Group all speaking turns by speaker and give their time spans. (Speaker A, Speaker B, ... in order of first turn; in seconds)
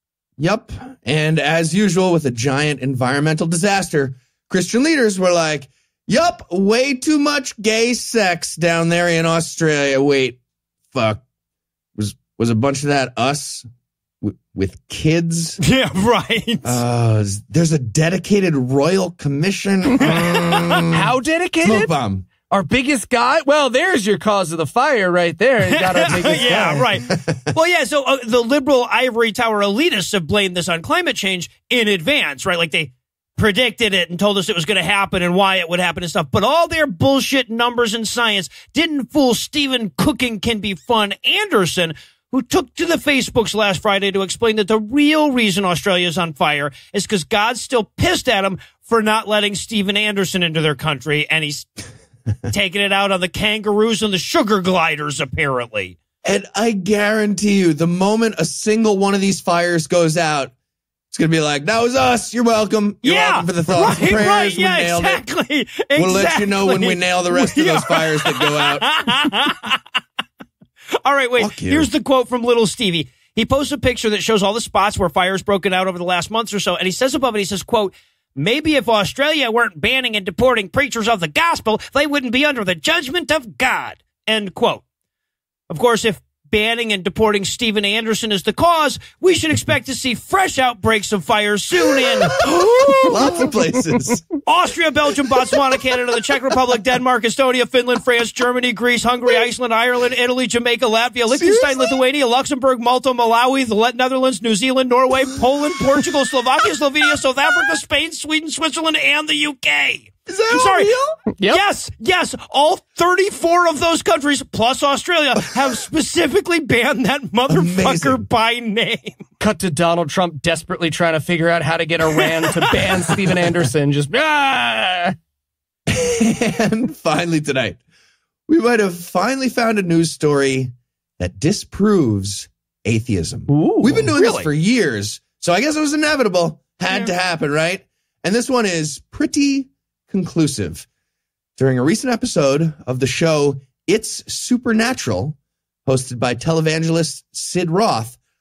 Speaker A: 0.4-10.4, 10.9-11.2, 11.9-13.6, 14.2-15.6, 16.6-21.1, 21.6-22.3, 27.1-27.5, 56.2-60.5, 61.1-65.2, 65.9-68.9, 71.4-71.9, 92.2-94.2, 101.4-101.7, 110.3-111.1, 117.5-118.2, 125.9-127.8, 128.5-140.8, 141.6-148.2
Speaker B: 15.6-16.8, 20.1-20.4, 25.7-51.7, 52.5-56.0, 63.0-69.8, 71.0-84.8, 85.7-92.3, 94.4-110.9, 111.5-119.2, 134.2-134.5
Speaker C: 20.9-21.9, 22.5-26.9, 92.4-93.4, 111.3-111.6, 119.4-125.1, 133.5-134.1